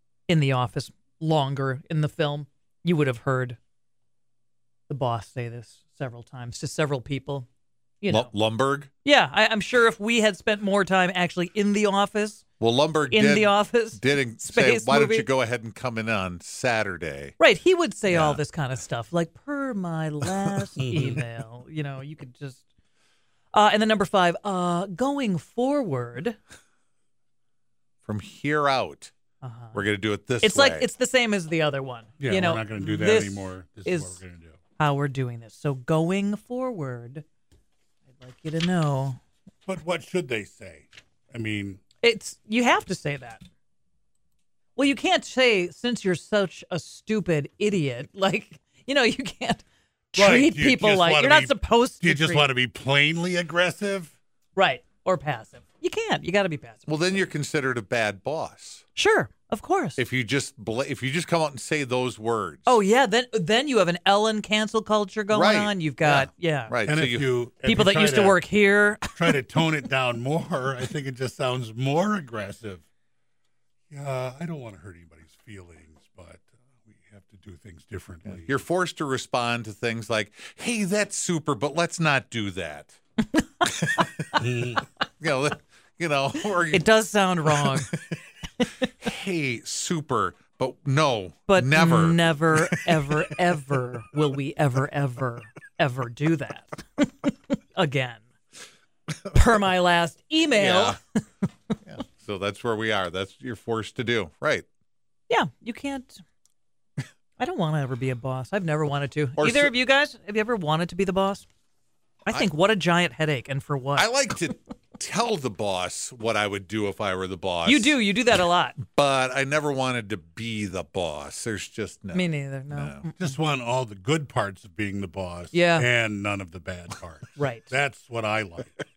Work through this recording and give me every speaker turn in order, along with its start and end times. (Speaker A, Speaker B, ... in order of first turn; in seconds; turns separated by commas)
Speaker A: 0.3-3.6, Speaker A: 4.9-7.5, Speaker A: 8.0-8.3, Speaker B: 8.1-8.9, Speaker A: 9.0-12.4, Speaker B: 12.6-17.4, Speaker A: 13.1-15.3, Speaker A: 17.4-22.6, Speaker B: 18.1-18.4, Speaker A: 23.5-26.4, Speaker B: 28.0-29.1, Speaker A: 29.4-29.8, Speaker B: 29.7-30.9, Speaker A: 30.4-34.2, Speaker C: 32.2-34.6, Speaker A: 34.8-37.2, Speaker A: 38.1-39.2, Speaker C: 39.6-41.8, Speaker A: 42.0-43.4, Speaker A: 44.8-52.5, Speaker C: 50.1-54.1, Speaker A: 54.5-56.9, Speaker B: 56.9-58.8, Speaker A: 59.0-60.0, Speaker B: 60.0-62.8, Speaker A: 62.6-66.7, Speaker B: 65.3-67.3, Speaker C: 66.8-68.4, Speaker A: 67.6-69.4, Speaker C: 69.1-72.8, Speaker C: 73.9-78.5, Speaker B: 78.3-83.0, Speaker B: 83.7-84.3, Speaker C: 84.3-84.8, Speaker B: 85.2-86.9, Speaker A: 86.7-87.9, Speaker B: 87.6-88.1, Speaker B: 89.0-92.9, Speaker A: 91.5-98.2, Speaker A: 99.3-101.0, Speaker B: 100.5-101.0, Speaker B: 101.8-104.7, Speaker A: 105.3-106.2, Speaker A: 107.4-111.4, Speaker B: 109.4-109.7, Speaker A: 112.3-114.1, Speaker B: 114.0-118.0, Speaker A: 117.6-118.8, Speaker B: 118.8-123.1, Speaker A: 122.1-123.3, Speaker C: 123.2-128.8, Speaker A: 125.5-125.9, Speaker A: 127.4-127.7